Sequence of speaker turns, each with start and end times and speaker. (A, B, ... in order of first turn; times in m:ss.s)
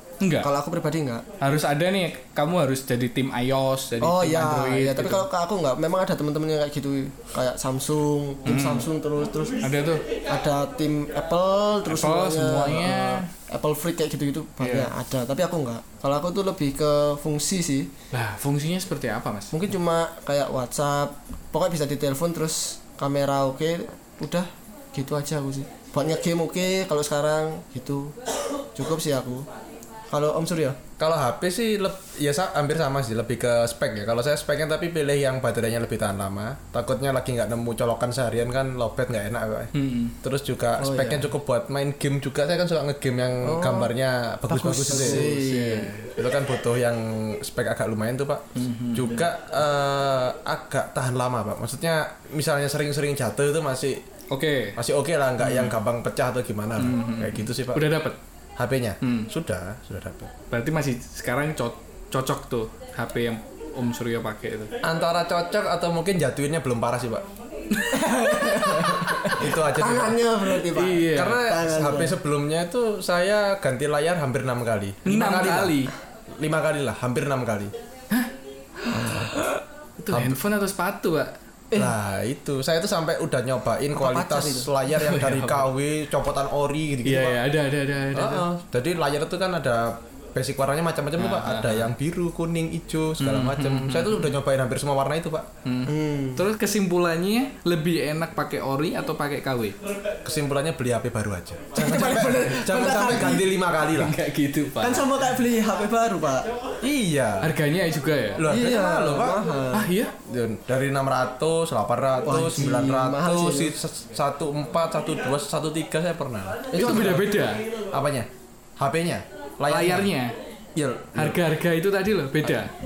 0:00.2-0:00.5 A
0:00.4-0:01.2 B
0:01.4-0:05.3 A
0:04.0-0:09.6 B
0:08.5-0:08.9 A
0:09.6-0:10.0 A
0:10.3-0:17.9 B
0:11.9-0:13.3 A
0:14.6-0:14.9 A
0:18.1-0:19.5 A
0:19.5-0:28.2 B
0:28.8-0:29.5 B
0:30.1-0:30.8 B
0:31.0-0:45.3 C
0:39.7-0:40.2 A
0:40.8-0:41.3 B
0:43.4-0:43.9 B
0:44.5-0:45.9 B
0:44.9-0:46.2 A
0:46.2-0:54.0 C
0:48.6-0:49.2 A
0:54.3-0:54.8 A
0:54.8-0:57.9 C
0:55.4-0:55.8 A
0:56.8-0:58.2 A
0:58.6-1:00.3 C
0:59.0-0:59.3 A
1:00.5-1:04.8 A
1:04.8-1:07.3 C
1:07.7-1:09.2 A
1:07.9-1:12.2 B
1:09.1-1:10.2 C
1:10.6-1:11.4 A
1:11.1-1:17.7 C
1:15.0-1:15.9 A
1:18.8-1:19.2 A
1:18.9-1:19.6 B
1:20.0-1:21.3 A
1:20.1-1:20.4 C
1:21.8-1:27.4 C
1:23.9-1:24.7 B
1:24.9-1:25.7 A
1:27.0-1:28.5 A
1:28.1-1:35.5 C
1:31.2-1:31.9 A
1:33.2-1:34.3 A
1:35.6-1:39.8 A
1:35.9-1:36.4 B
1:40.2-1:44.2 C
1:41.8-1:43.5 B
1:42.9-1:45.1 A
1:44.8-1:46.5 B
1:46.8-1:47.6 C
1:47.4-1:48.5 A
1:48.4-1:49.5 C
1:48.5-1:49.9 B
1:49.7-1:50.1 A
1:50.2-1:57.3 C
1:52.2-1:53.8 B
1:56.7-1:57.2 B
1:56.8-1:57.7 A
1:57.9-2:00.1 C
1:59.7-2:00.3 A
2:00.8-2:01.4 C
2:01.2-2:02.7 A